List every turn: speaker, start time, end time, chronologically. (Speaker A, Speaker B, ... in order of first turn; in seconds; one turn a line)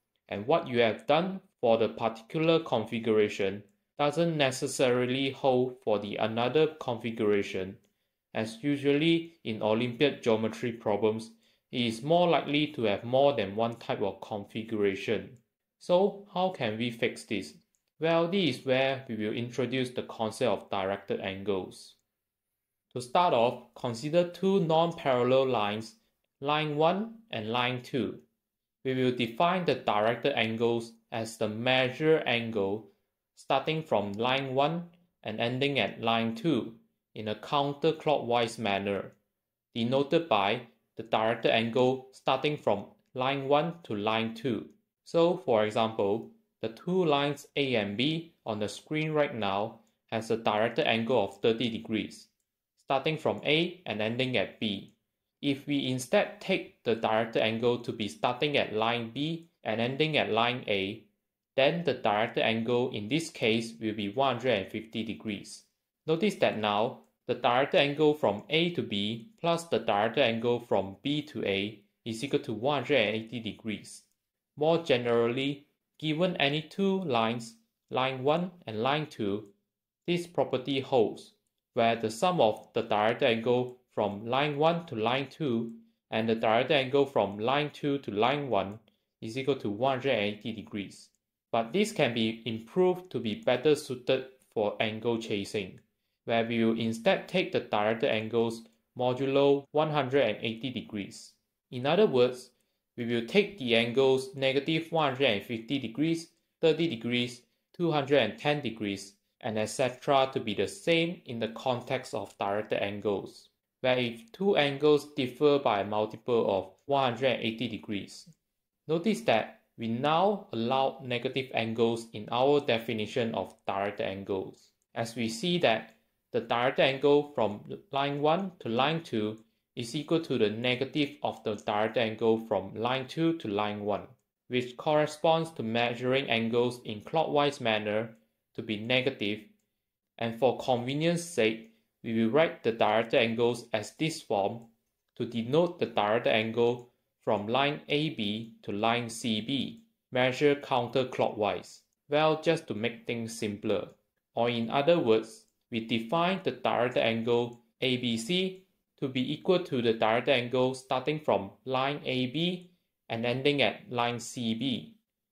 Speaker A: 0.3-7.8
Speaker A: 8.3-22.0
Speaker A: 22.9-28.2
Speaker A: 28.8-39.1
Speaker A: 39.7-79.5
Speaker A: 80.0-118.3
Speaker A: 118.9-139.5
Speaker A: 140.2-164.9